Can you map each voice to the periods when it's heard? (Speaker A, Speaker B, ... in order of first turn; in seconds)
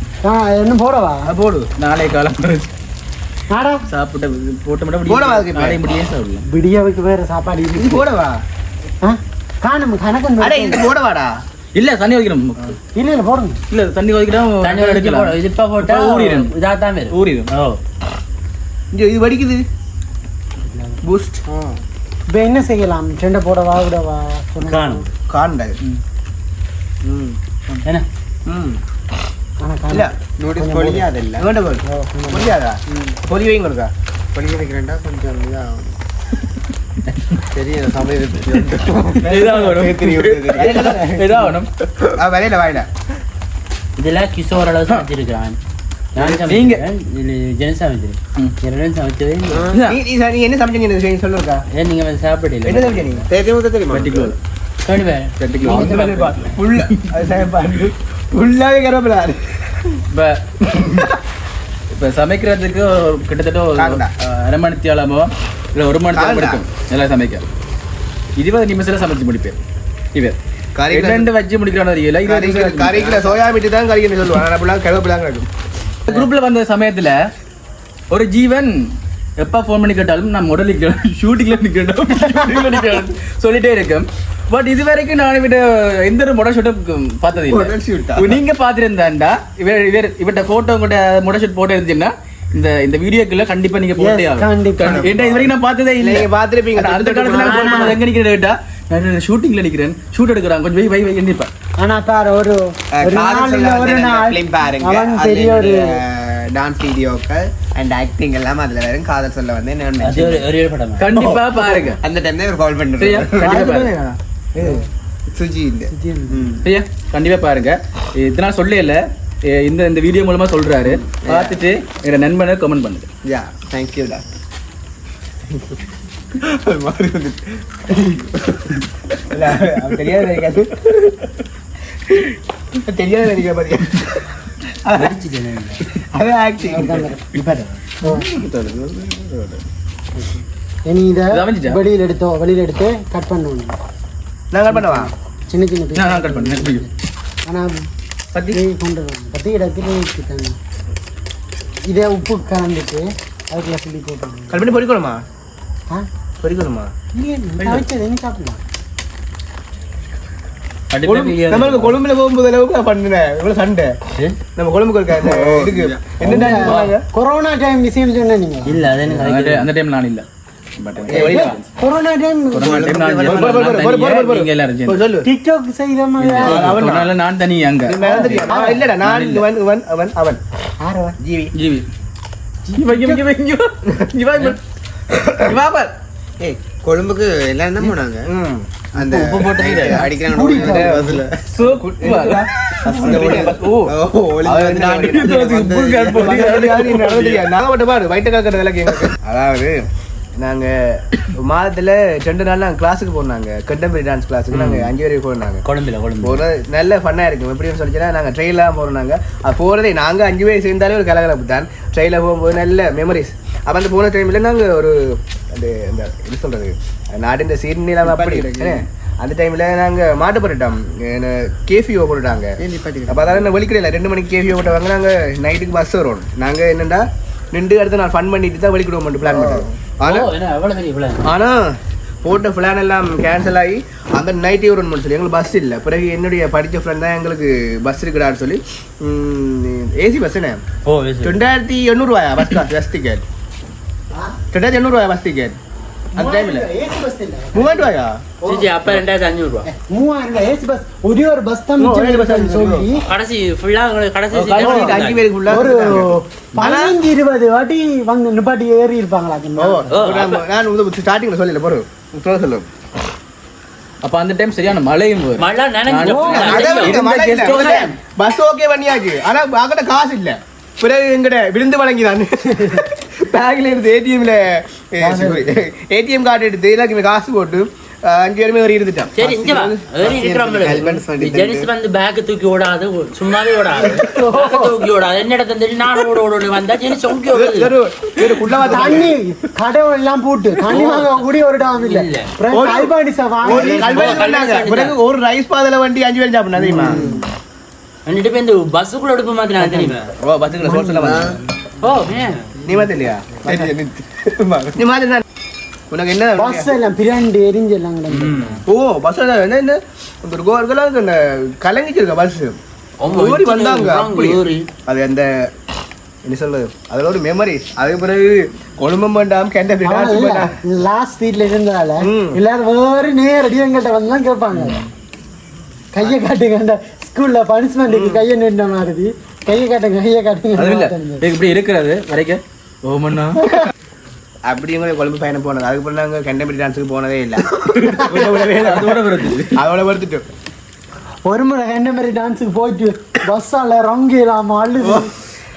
Speaker A: 0.2-1.3, 3.5-3.8, 6.5-8.1, 9.0-10.8, 12.9-13.6, 22.3-25.1, 29.6-31.1, 31.8-32.5, 94.0-95.2, 97.4-97.9, 101.8-106.0, 113.4-114.8, 115.9-116.5, 136.6-138.3, 140.8-143.8, 144.7-146.9, 147.4-147.8, 148.5-150.6, 151.9-154.8, 157.1-158.6, 166.2-168.8, 171.1-172.9, 175.2-176.7, 178.1-178.9, 180.8-181.2, 182.6-183.2, 189.0-191.2, 192.9-193.1, 246.1-248.7, 249.7-253.0, 254.6-260.1, 266.0-267.0, 275.0-275.6, 283.9-284.8, 288.7-294.3, 296.6-297.2, 300.6-301.3, 306.4-308.6, 319.8-324.8, 325.9-331.3, 341.2-345.1
Speaker B: 1.2-1.7, 5.1-5.8, 7.8-8.4, 10.4-11.4, 18.9-19.6, 21.0-21.4, 25.3-25.8, 27.0-27.8, 28.4-28.8, 29.9-30.1, 31.4-33.9, 39.3-39.8, 40.5-41.3, 49.9-51.6, 52.6-53.3, 55.6-60.0, 60.8-61.1, 63.8-64.1, 66.1-66.6, 70.7-71.3, 72.2-75.5, 94.9-95.4, 96.0-98.0, 113.4-114.0, 126.4-131.1, 132.1-134.3, 134.8-135.2, 135.9-137.2, 144.5-145.1, 154.5-155.2, 156.4-156.9, 161.0-163.9, 164.6-167.0, 171.1-171.6, 173.2-175.3, 176.4-177.1, 177.8-180.4, 181.2-181.5, 185.1-185.6, 188.2-188.7, 190.6-193.6, 194.4-195.4, 196.1-199.9, 200.4-205.6, 206.2-222.6, 223.1-230.3, 231.2-240.6, 241.2-243.2, 244.5-245.6, 246.2-246.7, 247.5-248.2, 251.8-252.9, 254.6-256.9, 259.6-262.7, 266.3-279.9, 287.3-289.1, 290.7-291.0, 292.5-292.9, 293.4-297.1, 300.2-301.4, 302.6-305.2, 305.9-306.7, 308.6-315.5, 316.2-320.5, 322.0-322.4, 327.9-328.2, 334.4-340.2, 344.8-345.1
Speaker C: 1.8-2.7, 3.9-6.5, 11.7-12.8, 13.7-16.5, 17.1-17.5, 39.2-41.7, 46.4-46.8, 49.7-50.0, 53.9-54.4, 55.4-56.1, 60.1-61.1, 61.9-67.4, 68.4-69.6, 70.9-73.2, 76.1-77.3, 78.1-101.5, 111.0-112.0, 113.0-113.9, 116.6-123.1, 138.0-139.6, 141.3-141.8, 145.9-146.9, 148.3-148.6, 166.3-166.9, 169.1-170.2, 170.8-171.7, 172.5-175.0, 176.2-179.5, 181.5-181.9, 182.7-184.6, 185.3-185.9, 189.1-190.1, 191.5-193.9, 195.1-197.5, 204.5-204.9, 254.3-254.9, 264.0-267.9, 324.5-324.9, 330.6-333.5, 337.8-339.6
Speaker D: 14.6-17.8, 20.7-21.0, 24.7-25.1, 44.0-45.6, 46.1-49.8, 51.7-53.2, 54.9-56.6, 110.0-111.1, 134.9-135.8, 160.9-162.0, 168.7-169.7, 176.4-176.7, 189.4-189.9, 205.6-206.4, 230.0-231.3, 240.8-241.4, 248.4-249.7, 253.0-255.3, 259.9-260.4, 265.4-267.0, 279.1-287.7, 290.7-292.3, 293.5-294.9, 298.1-300.1, 301.8-302.6, 308.1-308.6, 313.0-314.7
Speaker E: 21.4-21.8, 30.4-31.5, 32.9-33.2, 34.3-36.0, 37.5-41.2, 42.1-42.9, 49.5-49.8, 53.3-54.3, 87.5-88.3, 102.9-110.5, 112.0-113.5, 115.3-116.6, 121.1-121.6, 123.2-124.2, 165.2-166.2, 171.1-171.4, 172.6-173.8, 186.4-188.3, 188.9-191.4, 192.9-196.4, 218.0-218.8, 222.6-223.5, 229.3-229.7, 280.0-281.7, 296.8-297.2, 301.0-301.4